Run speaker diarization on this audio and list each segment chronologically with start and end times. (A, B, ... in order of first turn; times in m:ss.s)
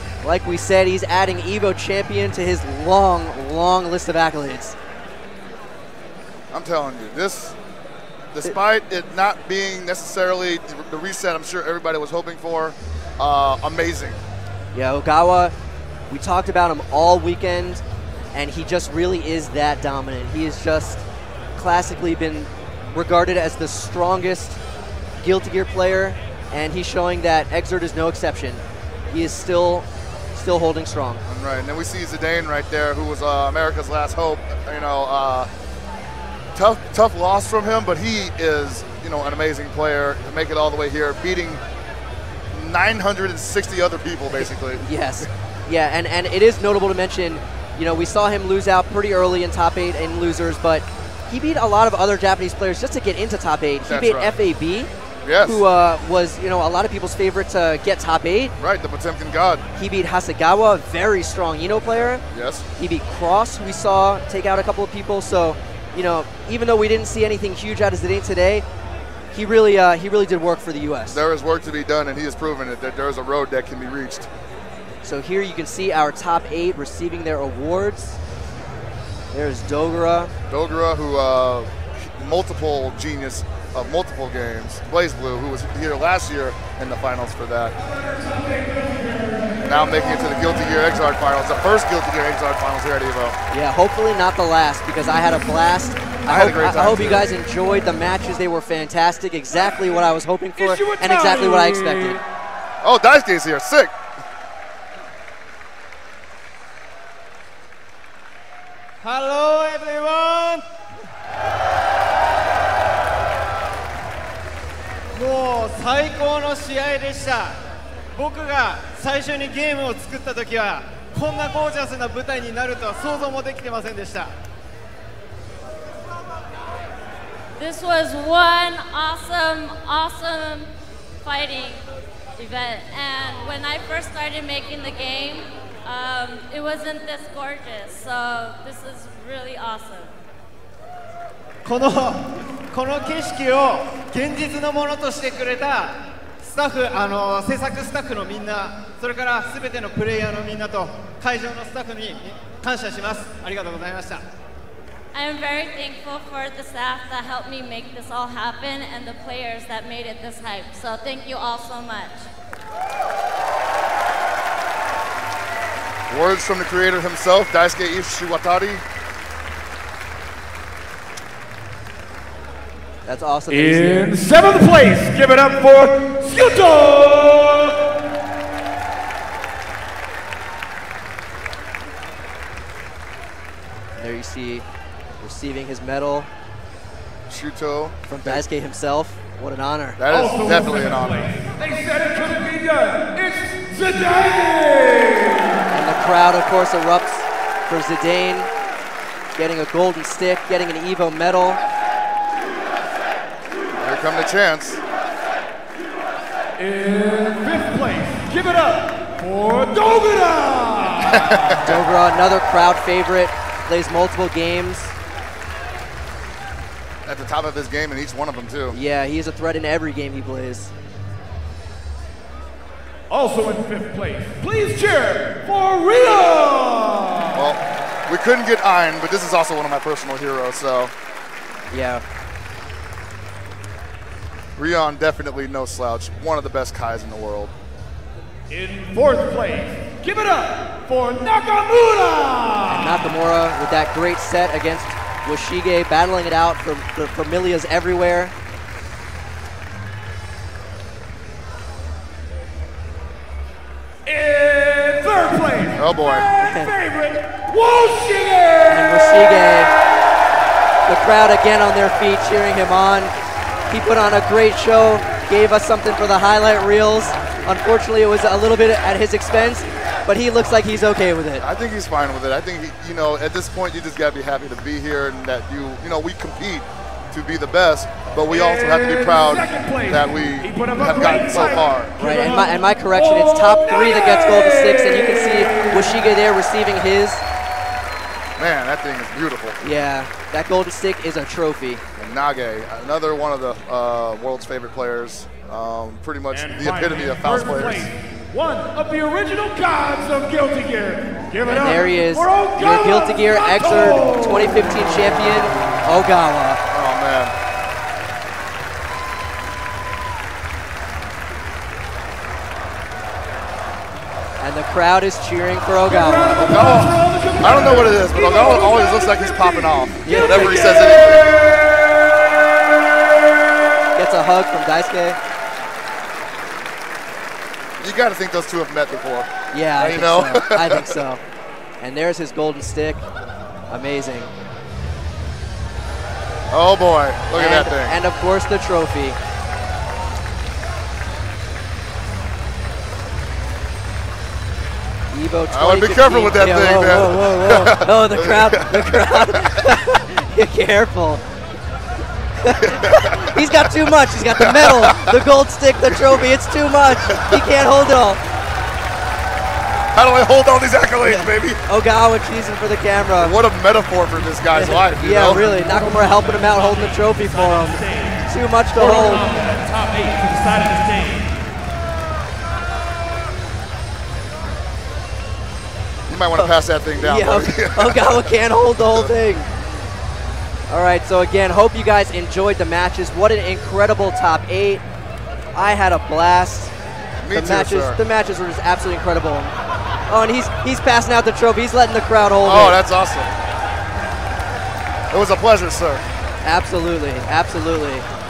0:00.2-0:04.8 A
0:06.5-0:07.6 B
0:08.3-0:14.2 B
0:14.7-0:15.5 A
0:16.1-0:17.8 A
0:18.3-0:21.0 A
0:21.6-0:24.6 A
0:25.2-0:31.2 A
0:31.3-0:35.5 B
0:36.5-0:41.6 B
0:42.5-0:45.2 B
0:44.8-0:54.9 A
0:53.8-0:54.3 B
0:55.2-0:55.6 B
0:55.4-0:58.5 A
0:58.6-0:59.6 B
0:59.8-1:02.2 A
1:02.3-1:02.6 B
1:02.8-1:08.6 A
1:09.3-1:11.2 A
1:11.1-1:14.3 B
1:15.0-1:18.2 A
1:19.3-1:20.3 A
1:20.5-1:27.7 B
1:28.0-1:29.5 C
1:29.6-1:33.4 B
1:33.5-1:42.2 A
1:36.2-1:37.3 B
1:40.6-1:42.2 C
1:42.8-1:43.9 B
1:49.0-1:50.6 D
1:55.1-1:57.6 D
1:58.1-2:04.3 D
2:07.6-2:10.7 E
2:11.2-2:11.8 E
2:12.4-2:20.1 E
2:21.6-2:34.2 D
2:35.1-2:42.3 E
2:46.1-2:48.8 B
2:53.0-2:54.2 A
2:53.5-2:57.8 C
3:04.0-3:04.6 A
3:05.2-3:06.3 A
3:07.3-3:08.4 B
3:08.1-3:10.0 A
3:10.0-3:11.3 B
3:10.1-3:15.6 C
3:15.7-3:18.5 A
3:19.4-3:21.6 A
3:23.8-3:24.8 B
3:26.6-3:31.6 C
3:31.0-3:31.8 B
3:31.6-3:34.9 A
3:37.0-3:38.8 B
3:38.7-3:40.7 A
3:43.1-3:47.5 C
3:47.3-3:50.9 B
3:51.7-3:52.0 A
3:54.6-3:57.5 B
3:58.5-4:03.1 C
4:02.7-4:08.3 A
4:14.0-4:19.5 C
4:15.8-4:16.3 B
4:16.4-4:16.7 A
4:18.7-4:19.7 A
4:20.8-4:23.1 A
4:23.7-4:31.4 A
4:31.4-4:42.0 B
4:38.3-4:45.7 C
4:42.0-4:47.2 A
4:48.4-4:49.6 B
4:49.6-4:51.8 A
4:52.0-4:57.9 B
4:56.3-5:04.7 C
5:01.5-5:06.6 A
5:06.7-5:07.3 B
5:14.4-5:16.5 A
5:15.8-5:21.6 C
5:16.4-5:21.4 B
5:20.0-5:20.6 A
5:24.0-5:25.2 A
5:27.8-5:31.0 B
5:29.5-5:31.2 A
5:31.8-5:33.0 A
5:33.7-5:34.3 A
5:36.5-5:38.0 B
5:37.3-5:39.2 A
5:45.1-5:51.2 A
5:45.5-5:49.7 B
5:52.4-5:58.2 A
5:52.6-5:53.7 B
5:54.3-5:55.2 B
5:55.9-5:56.2 B
5:57.1-5:57.5 B
5:59.9-6:01.6 B
6:01.0-6:03.3 A
6:03.2-6:05.4 B
6:04.5-6:09.3 A
6:05.4-6:11.3 C
6:16.1-6:18.4 B
6:16.3-6:19.5 A
6:20.7-6:24.8 A
6:25.5-6:26.7 A
6:27.2-6:28.0 B
6:27.3-6:29.5 A
6:30.1-6:32.8 A
6:32.4-6:33.3 B
6:35.1-6:36.0 B
6:36.4-6:38.0 A